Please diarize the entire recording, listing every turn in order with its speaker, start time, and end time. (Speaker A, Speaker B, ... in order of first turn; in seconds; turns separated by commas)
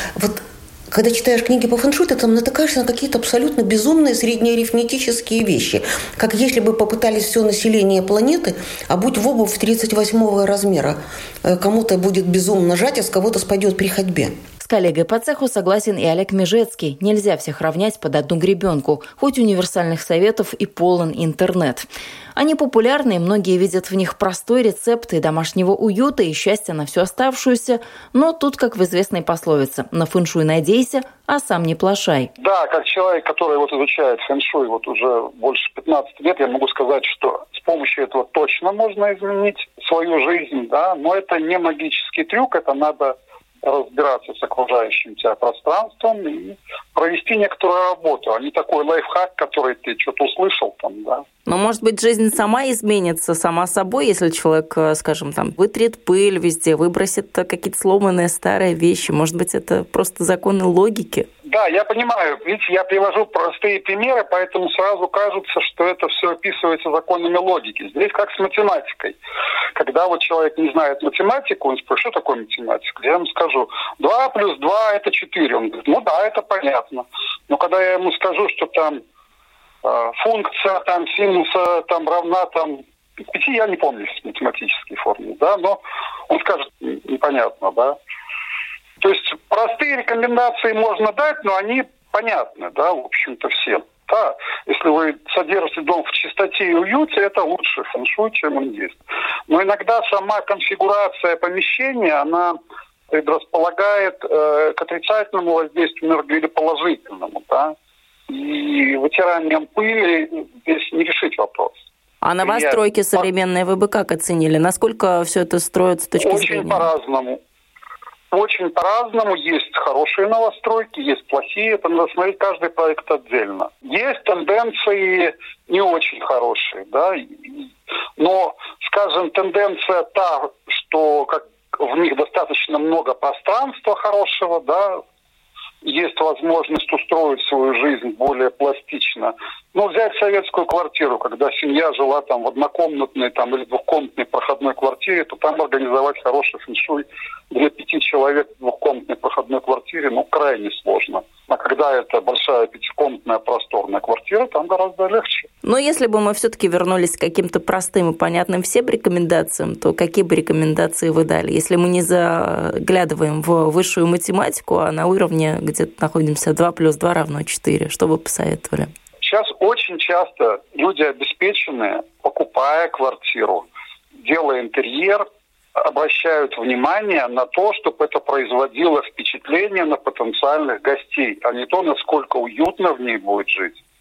Speaker A: 0.1-14.3, Speaker B: 14.6-32.3, Speaker C: 32.4-51.2, Speaker B: 51.5-61.3, Speaker C: 61.5-69.2, Speaker C: 69.7-79.0, Speaker C: 79.8-88.0, Speaker C: 89.0-102.5, Speaker C: 103.1-107.7, Speaker C: 108.3-111.7, Speaker B: 112.2-116.9, Speaker C: 112.4-113.3, Speaker C: 116.2-117.4, Speaker C: 118.3-135.0, Speaker C: 135.8-155.5, Speaker B: 155.6-168.9, Speaker C: 169.2-173.7, Speaker C: 174.2-175.2, Speaker C: 175.8-183.8